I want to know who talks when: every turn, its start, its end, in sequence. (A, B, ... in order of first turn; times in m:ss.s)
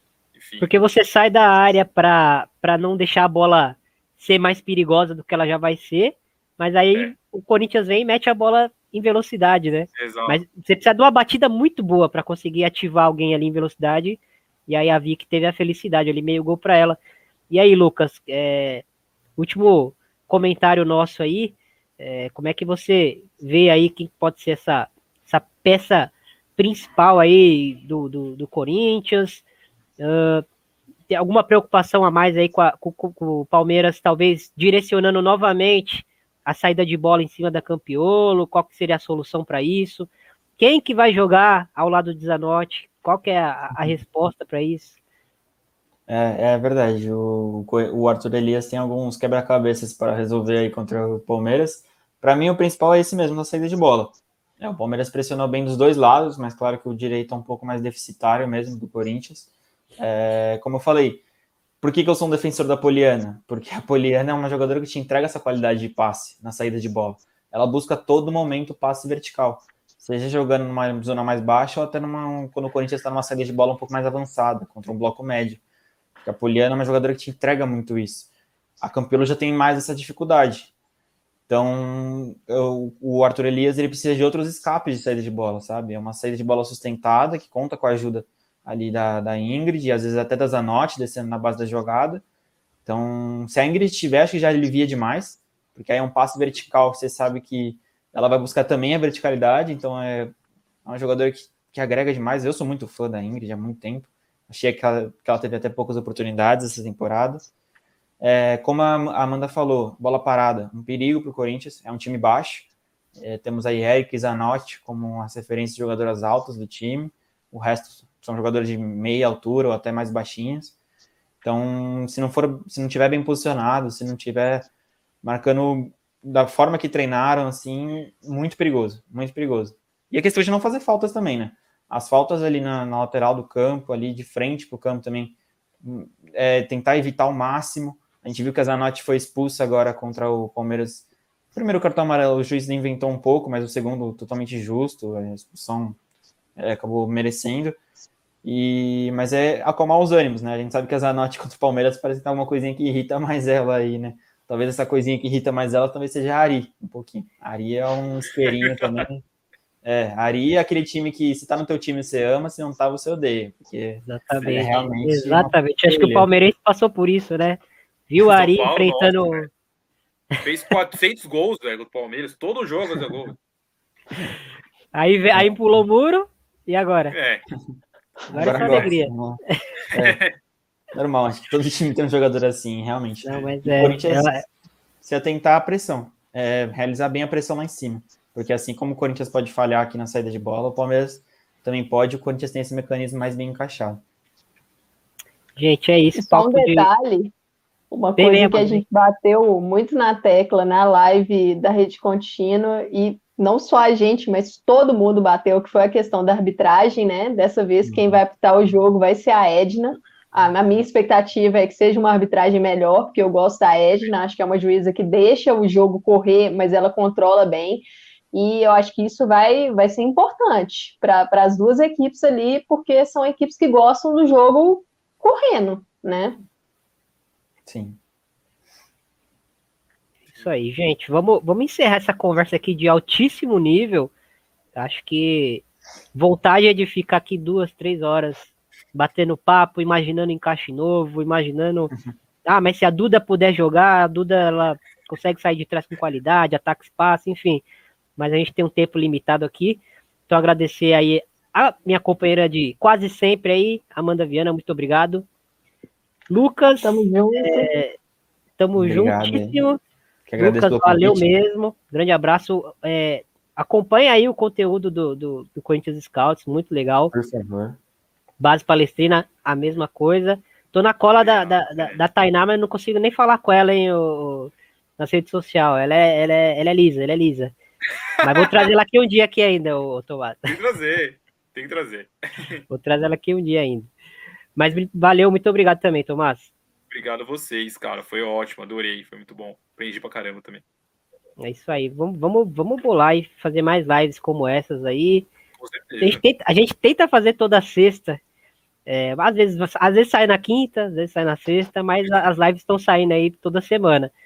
0:00.4-0:00.7 A
0:00.6-0:17.0 B
0:10.0-0:10.4 A
0:17.5-0:18.8 B
0:19.4-0:29.4 B
0:30.0-0:30.4 B
0:31.1-0:45.0 B
0:46.1-1:01.2 C
1:01.8-1:15.6 C
1:16.2-1:18.3 C
1:18.8-1:20.7 C
1:21.5-1:32.2 C
1:32.9-1:40.3 C
1:40.8-1:47.4 C
1:48.2-2:00.8 C
2:01.4-2:04.7 C
2:05.2-2:26.0 C
2:26.6-2:27.8 C
2:28.4-2:39.2 C
2:38.6-2:39.1 A
2:39.8-2:46.3 C
2:44.1-2:49.5 B
2:48.3-2:49.5 A
2:50.4-2:53.4 A
2:54.9-2:57.2 B
2:57.1-2:57.5 A
2:58.3-2:59.4 C
2:58.3-2:59.6 B
2:58.5-2:58.8 A
2:59.9-3:00.2 C
2:59.9-3:00.3 A
3:00.9-3:04.4 C
3:03.2-3:04.4 B
3:05.0-3:14.0 C
3:15.6-3:16.9 B
3:16.2-3:17.3 D
3:17.9-3:46.4 D
3:18.2-3:18.8 B
3:27.8-3:28.2 C
3:47.7-3:48.0 C
3:50.3-3:54.1 B
3:54.8-4:01.9 B
4:02.5-4:07.6 B
4:08.2-4:15.3 B
4:16.3-4:18.0 B
4:16.8-4:17.7 D
4:18.6-4:19.8 B
4:18.8-4:19.6 C
4:20.3-4:21.4 C
4:20.4-4:27.1 B
4:27.1-4:27.8 C
4:28.4-4:37.5 B
4:31.2-4:32.0 A
4:38.2-4:40.5 B
4:40.5-4:42.6 A
4:42.7-4:43.9 B
4:44.6-4:46.5 B
4:46.9-4:50.6 A
4:51.4-4:55.3 B
4:55.6-4:56.2 A
4:56.0-4:58.2 B
4:58.9-5:04.1 B